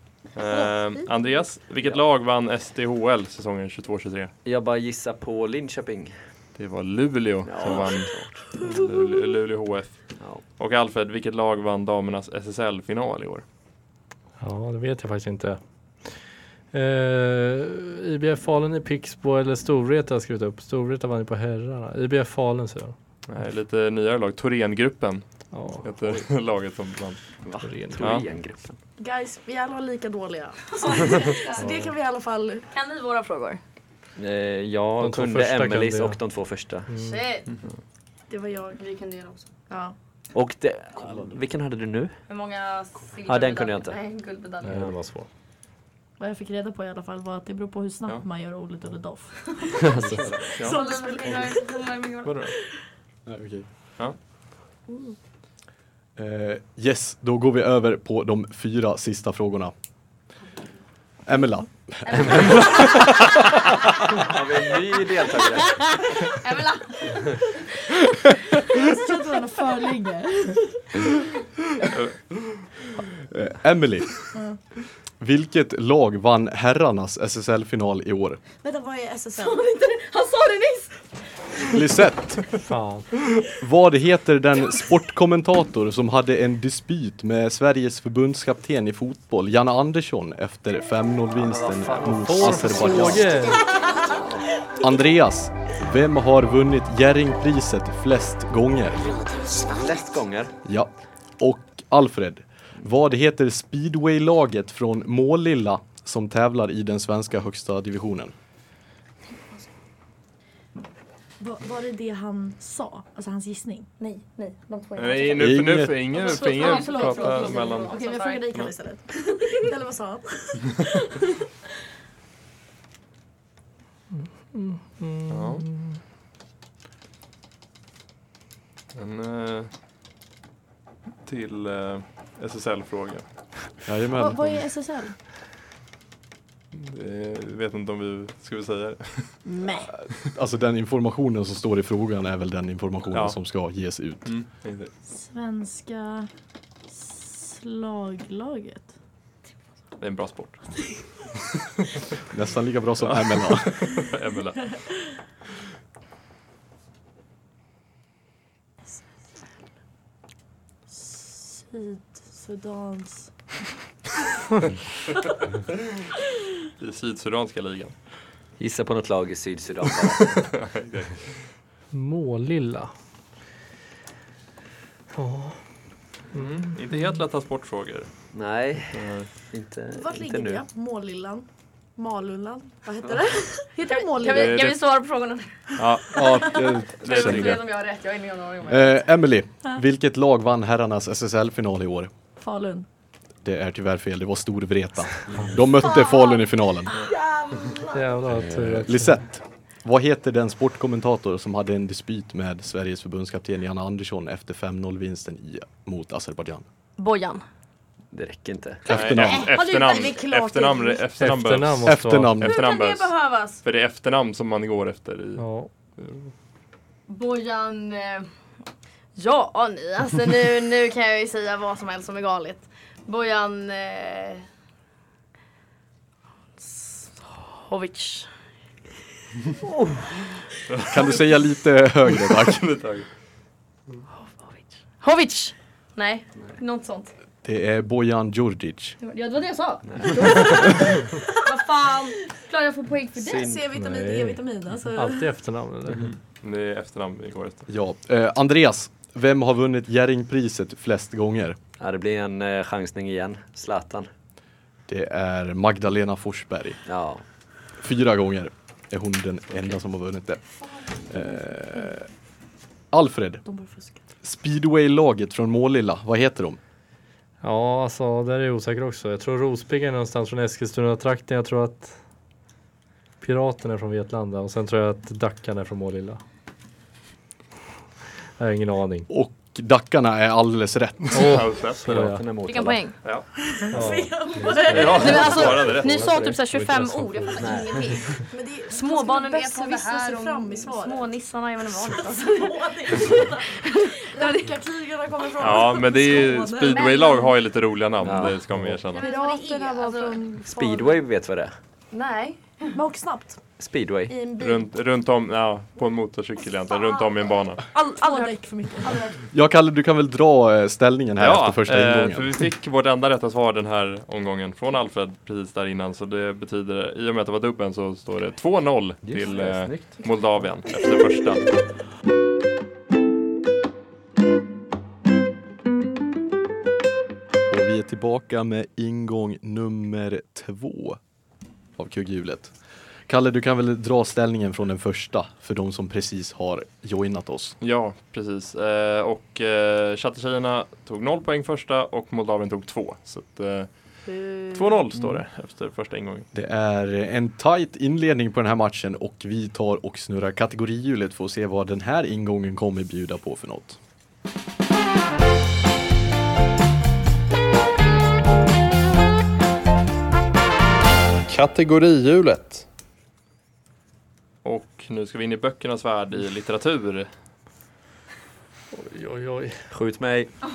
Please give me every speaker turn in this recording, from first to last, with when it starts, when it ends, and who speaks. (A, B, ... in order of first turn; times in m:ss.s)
0:00.4-0:04.3 A
0:00.4-0:01.1 B
0:04.4-0:06.2 C
0:06.6-0:13.4 A
0:07.4-0:08.4 C
0:08.6-0:08.8 B
0:14.4-0:16.2 D
0:16.7-0:23.0 D
0:23.3-0:25.3 A
0:25.5-0:25.9 D
0:25.8-0:27.2 A
0:27.4-0:28.8 C
0:27.6-0:28.2 D
0:28.0-0:28.2 A
0:29.0-0:32.7 B
0:30.7-0:31.7 E
0:31.6-0:31.9 D
0:32.7-0:33.6 E
0:34.2-0:36.9 C
0:35.0-0:36.2 D
0:36.9-0:37.2 D
0:37.0-0:37.5 E
0:38.3-0:38.8 B
0:38.7-0:39.5 E
0:39.7-0:40.0 B
0:40.3-0:42.2 C
0:42.3-0:44.8 E
0:43.2-0:44.0 C
0:44.6-0:45.3 D
0:44.7-0:45.0 C
0:46.2-0:51.9 B
0:49.8-0:50.4 C
0:50.6-0:50.8 A
0:50.6-0:52.4 E
0:52.2-0:52.5 A
0:53.3-0:53.7 F
0:56.2-0:59.7 F
1:01.3-1:03.3 F
1:02.0-1:03.0 E
1:04.2-1:05.8 C
1:06.2-1:07.3 E
1:08.7-1:11.1 B
1:11.9-1:12.2 A
1:13.3-1:14.2 F
1:14.3-1:14.6 B
1:15.2-1:18.4 F
1:18.6-1:19.7 B
1:19.4-1:21.1 E
1:21.7-1:22.6 F
1:22.7-1:23.2 D
1:23.4-1:33.5 F
1:31.4-1:33.3 C
1:32.0-1:33.7 D
1:33.4-1:34.2 E
1:34.1-1:34.5 C
1:34.7-1:39.2 F
1:39.7-1:40.5 C
1:40.6-1:48.3 F
1:51.4-1:53.9 B
1:54.0-1:58.7 E
1:55.0-1:58.0 A
1:55.4-1:56.1 F
1:56.1-2:01.3 B
2:04.1-2:06.0 D
2:05.3-2:05.6 A
2:09.0-2:09.7 A
2:11.2-2:13.2 A
2:13.8-2:14.7 F
2:14.1-2:15.1 B
2:16.7-2:19.5 A
2:19.4-2:19.9 B
2:19.9-2:24.3 F
2:24.2-2:24.9 A
2:25.1-2:26.3 B
2:26.9-2:28.9 B
2:30.0-2:30.7 A
2:32.3-2:34.0 F
2:33.0-2:34.8 A
2:40.9-2:43.3 B
2:46.8-2:47.9 A
2:48.6-2:50.5 C
2:50.2-2:51.4 A
2:51.9-2:52.9 D
2:55.1-2:55.6 D
2:56.3-2:57.2 D
2:56.3-2:58.1 A
2:58.3-3:00.6 C
2:59.0-2:59.2 A
2:59.9-3:04.7 B
3:03.9-3:09.0 E
3:04.2-3:04.8 A
3:05.8-3:07.6 A
3:06.1-3:07.6 F
3:08.7-3:12.1 F
3:12.4-3:12.9 B
3:13.4-3:17.0 F
3:15.3-3:15.6 C
3:16.9-3:18.2 B
3:17.9-3:19.2 D
3:18.5-3:26.6 F
3:27.0-3:27.4 E
3:28.1-3:29.1 C
3:28.9-3:29.5 F
3:28.9-3:35.4 A
3:29.2-3:30.7 E
3:29.4-3:31.0 B
3:31.2-3:32.4 D
3:31.8-3:32.6 F
3:32.4-3:33.6 E
3:35.4-3:35.7 D
3:36.0-3:36.3 A
3:37.1-3:38.3 E
3:39.2-3:44.4 E
3:46.6-3:48.3 E
3:50.9-3:52.7 F
3:52.2-3:53.1 A
3:55.0-3:57.1 E
3:57.4-3:59.0 F
3:59.0-4:03.5 E
3:59.9-4:00.3 C
4:00.6-4:00.9 B
4:03.2-4:03.6 C
4:03.3-4:05.3 B
4:03.7-4:06.1 D
4:06.0-4:07.7 A
4:07.7-4:11.6 F
4:11.8-4:14.1 C
4:14.9-4:16.8 F
4:16.9-4:17.2 C
4:17.8-4:20.4 F
4:20.7-4:21.9 B
4:21.0-4:22.1 F
4:22.9-4:23.4 F
4:23.4-4:24.1 B
4:24.2-4:26.6 F
4:27.4-4:32.0 D
4:33.2-4:36.2 D
4:38.4-4:39.1 D
4:39.1-4:41.4 F
4:41.1-4:42.3 D
4:41.2-4:42.1 A
4:41.8-4:42.8 C
4:42.5-4:43.0 E
4:43.4-4:45.3 B
4:43.7-4:45.6 D
4:44.6-4:46.2 A
4:44.7-4:54.5 E
4:44.9-4:46.4 C
4:46.5-4:48.1 D
4:47.4-4:48.2 C
4:48.2-4:51.1 B
4:51.9-4:56.9 B
4:55.4-4:59.1 A
4:56.6-4:57.4 E
4:58.0-4:58.8 C
4:58.9-5:00.2 E
4:58.9-5:01.0 B
5:00.5-5:01.5 C
5:01.9-5:02.8 E
5:02.7-5:03.4 B
5:03.6-5:04.2 C
5:04.1-5:04.6 B
5:04.4-5:07.6 A
5:06.8-5:07.1 B
5:07.7-5:09.2 B
5:08.0-5:08.3 E
5:09.3-5:12.3 F
5:11.2-5:21.5 A
5:19.0-5:20.1 C
5:27.5-5:31.0 F
5:31.8-5:32.5 F
5:33.1-5:37.6 F
5:37.6-5:46.3 A
5:46.3-5:53.8 F
6:01.3-6:02.6 A
6:04.4-6:07.1 A
6:08.7-6:09.7 D
6:09.7-6:10.3 C